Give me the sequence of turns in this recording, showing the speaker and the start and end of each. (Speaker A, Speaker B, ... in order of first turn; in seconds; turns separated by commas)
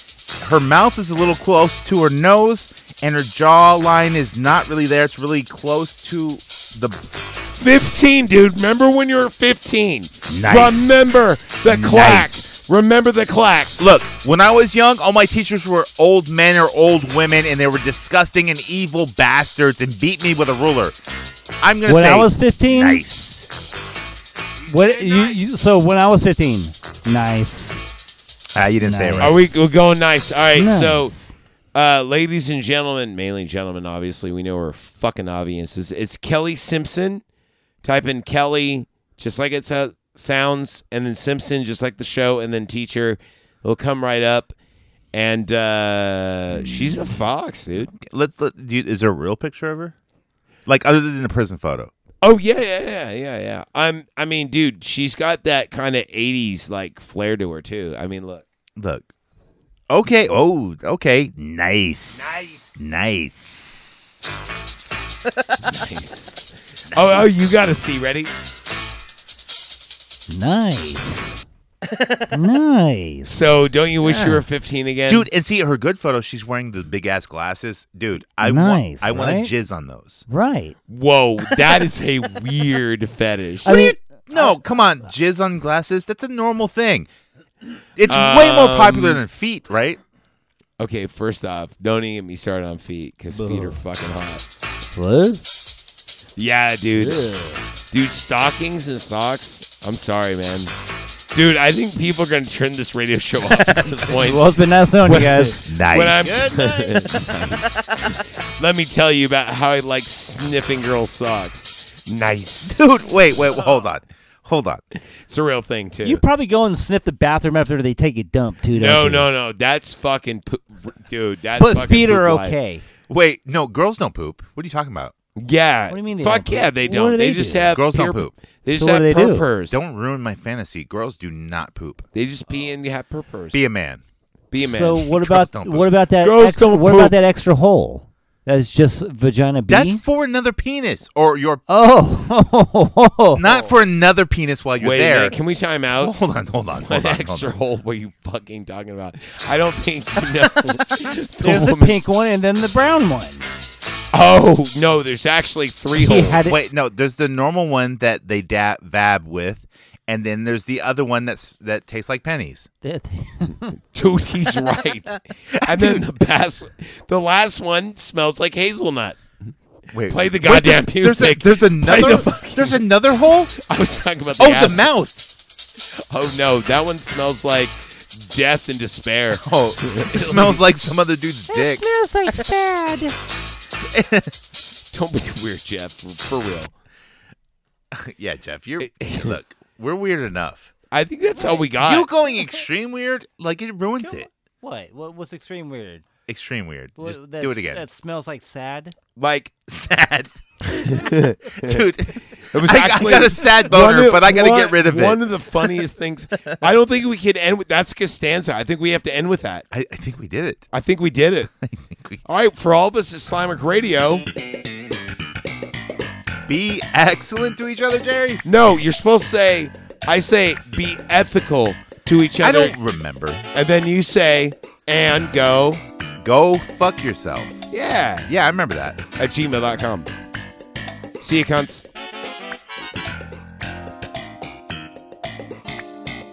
Speaker A: 0.4-7.0, Speaker B: 7.5-13.7, Speaker A: 10.3-12.4, Speaker A: 13.8-20.9, Speaker A: 21.6-23.5, Speaker C: 21.9-23.0, Speaker B: 24.6-25.4, Speaker C: 24.7-27.8, Speaker A: 28.5-29.4, Speaker C: 28.8-29.4, Speaker B: 29.2-31.1, Speaker C: 30.5-31.3, Speaker B: 31.7-37.2, Speaker B: 37.8-44.5, Speaker B: 45.1-47.9, Speaker A: 47.9-49.9, Speaker A: 50.7-51.9, Speaker B: 52.2-58.4, Speaker A: 58.8-59.1, Speaker A: 59.9-64.0, Speaker B: 62.1-62.7, Speaker A: 65.3-65.6, Speaker B: 65.6-68.3, Speaker A: 66.9-67.5, Speaker C: 70.3-71.4, Speaker A: 71.8-72.2, Speaker C: 72.3-73.5, Speaker B: 73.3-75.3, Speaker C: 74.0-74.4, Speaker A: 75.1-80.2, Speaker C: 78.4-79.5, Speaker C: 80.3-80.8, Speaker B: 80.9-83.8, Speaker C: 83.6-84.5, Speaker A: 83.7-87.1, Speaker A: 88.0-90.0, Speaker B: 88.1-89.2, Speaker B: 90.8-94.4, Speaker C: 93.3-93.8, Speaker C: 94.9-95.4, Speaker B: 96.4-97.2, Speaker C: 96.9-97.6, Speaker B: 97.9-100.7, Speaker B: 101.3-104.4, Speaker A: 103.6-104.0, Speaker C: 104.1-105.6, Speaker B: 105.0-113.7, Speaker A: 105.7-108.2, Speaker C: 106.3-106.8, Speaker A: 112.7-114.8, Speaker B: 115.2-116.2, Speaker C: 116.0-119.3, Speaker B: 118.7-122.6, Speaker C: 121.6-122.8, Speaker A: 123.1-125.1, Speaker B: 125.4-129.8, Speaker C: 125.9-127.7, Speaker A: 127.7-128.3, Speaker C: 128.7-129.4, Speaker A: 129.7-132.1, Speaker B: 132.1-133.6, Speaker A: 133.5-134.0, Speaker B: 134.5-135.1, Speaker C: 134.6-140.0, Speaker A: 135.1-135.9, Speaker B: 136.2-137.2, Speaker A: 139.7-141.6, Speaker C: 141.7-143.4, Speaker A: 143.3-145.3, Speaker B: 143.4-143.8, Speaker B: 144.8-146.1, Speaker A: 146.0-147.5, Speaker B: 146.8-152.0, Speaker C: 151.4-153.4, Speaker B: 154.1-156.4, Speaker C: 155.9-156.6, Speaker A: 156.5-162.7, Speaker C: 162.8-163.8, Speaker B: 163.9-169.2, Speaker A: 165.5-166.0, Speaker A: 169.9-173.6, Speaker B: 170.1-172.9, Speaker B: 173.6-174.9, Speaker A: 174.4-175.2, Speaker B: 176.1-180.7, Speaker A: 179.4-182.6, Speaker C: 181.5-183.1, Speaker A: 183.8-184.3, Speaker B: 184.9-186.7, Speaker A: 187.9-190.7, Speaker B: 188.8-189.4, Speaker B: 190.9-192.1, Speaker C: 191.3-191.7, Speaker A: 191.8-194.3, Speaker C: 194.0-196.0, Speaker A: 196.3-197.8, Speaker C: 197.0-198.9, Speaker B: 199.2-199.6, Speaker A: 199.7-200.9, Speaker B: 200.7-201.9, Speaker A: 201.6-205.7, Speaker B: 202.5-209.6, Speaker A: 209.7-210.6, Speaker B: 210.7-211.5, Speaker A: 211.6-212.2, Speaker B: 212.2-214.2, Speaker A: 216.5-218.4, Speaker B: 218.4-222.8, Speaker A: 222.4-223.4, Speaker B: 223.5-225.8, Speaker A: 226.2-227.6, Speaker B: 227.7-228.3, Speaker A: 228.3-229.0, Speaker B: 229.2-230.1, Speaker B: 231.2-231.8